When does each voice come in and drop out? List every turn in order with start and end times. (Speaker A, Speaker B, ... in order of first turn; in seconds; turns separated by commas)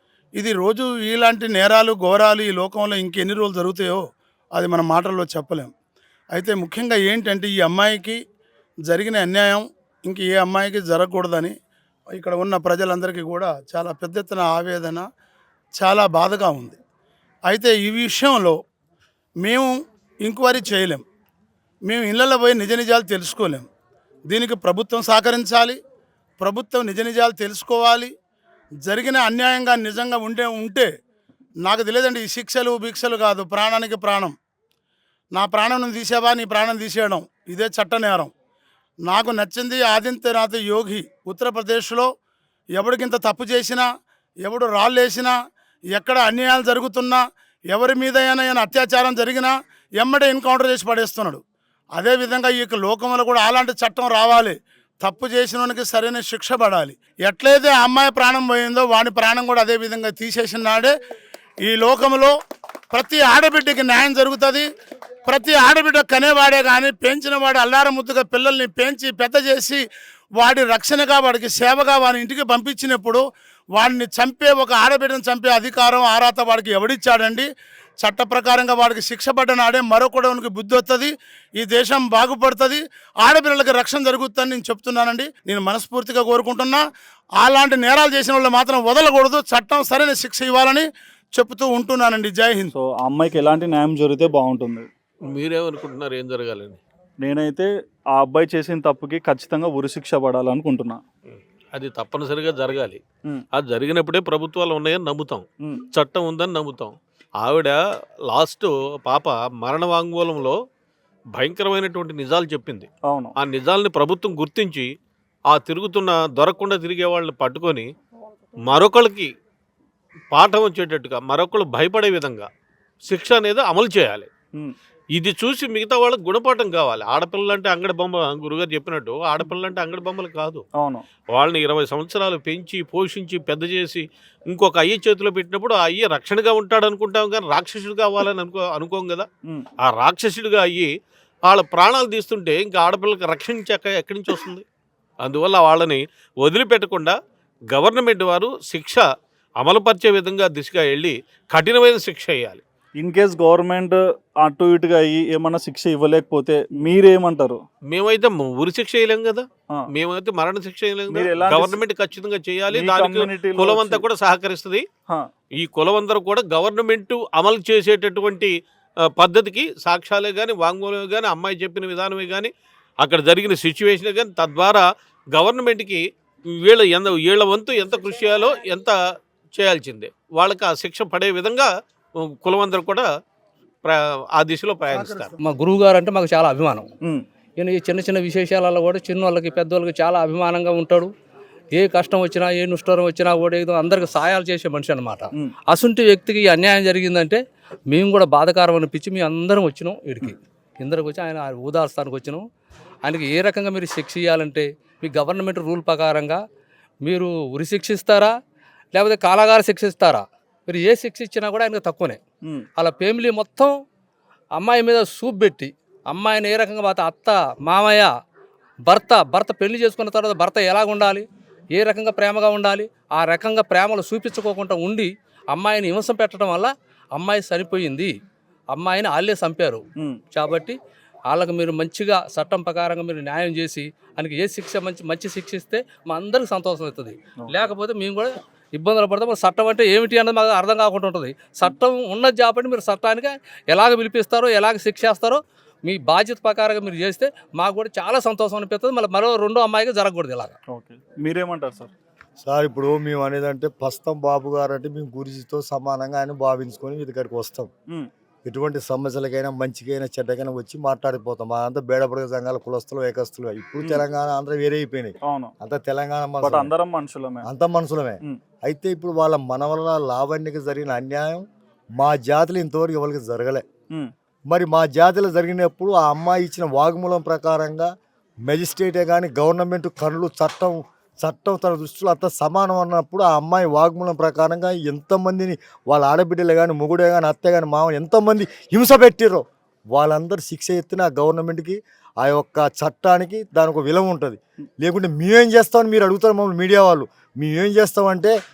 Speaker A: 0.4-4.0, Speaker A: 4.5-5.7, Speaker A: 6.3-8.2, Speaker A: 8.9-11.6, Speaker A: 12.1-15.1, Speaker A: 15.8-16.8, Speaker A: 17.5-18.6, Speaker A: 19.4-19.7, Speaker A: 20.2-21.0, Speaker A: 21.9-23.7, Speaker A: 24.3-25.8, Speaker A: 26.4-28.1, Speaker A: 28.8-30.9, Speaker A: 31.6-34.4, Speaker A: 35.3-38.3, Speaker A: 39.1-42.1, Speaker A: 42.8-43.9, Speaker A: 44.5-45.3, Speaker A: 45.9-47.2, Speaker A: 47.7-51.4, Speaker A: 52.0-61.0, Speaker A: 61.6-62.4, Speaker A: 62.9-64.7, Speaker A: 65.3-69.8, Speaker A: 70.4-73.2, Speaker A: 73.8-77.5, Speaker A: 78.0-86.8, Speaker A: 87.4-92.7, Speaker B: 92.7-94.9, Speaker C: 95.2-96.8, Speaker B: 97.2-101.0, Speaker C: 101.3-103.0, Speaker C: 103.5-110.6, Speaker C: 111.3-112.9, Speaker B: 113.1-113.3, Speaker C: 113.4-114.9, Speaker C: 115.5-117.9, Speaker C: 118.7-119.3, Speaker C: 120.3-122.5, Speaker C: 123.1-124.3, Speaker C: 125.2-130.7, Speaker B: 130.8-131.0, Speaker C: 131.3-139.3, Speaker C: 139.8-140.9, Speaker C: 141.5-144.6, Speaker C: 145.2-147.2, Speaker C: 147.7-149.1, Speaker C: 149.6-152.6, Speaker B: 153.0-157.6, Speaker C: 157.9-164.8, Speaker B: 161.1-161.8, Speaker B: 162.7-164.0, Speaker C: 165.6-168.5, Speaker C: 169.1-172.5, Speaker C: 173.0-178.9, Speaker C: 179.6-181.7, Speaker C: 182.2-183.1, Speaker C: 183.8-185.3, Speaker D: 185.4-186.9, Speaker D: 187.6-191.1, Speaker D: 191.7-202.4, Speaker D: 203.0-206.4, Speaker D: 207.0-208.4, Speaker D: 208.9-212.2, Speaker D: 212.8-213.8, Speaker D: 214.6-218.1, Speaker D: 218.8-228.2, Speaker D: 228.7-230.8, Speaker D: 231.3-250.6, Speaker B: 250.7-251.9, Speaker E: 252.4-257.7, Speaker E: 258.4-266.7, Speaker B: 265.2-265.5, Speaker B: 266.4-267.4, Speaker E: 267.4-271.5, Speaker E: 272.0-273.6, Speaker E: 274.5-277.9, Speaker E: 278.4-298.4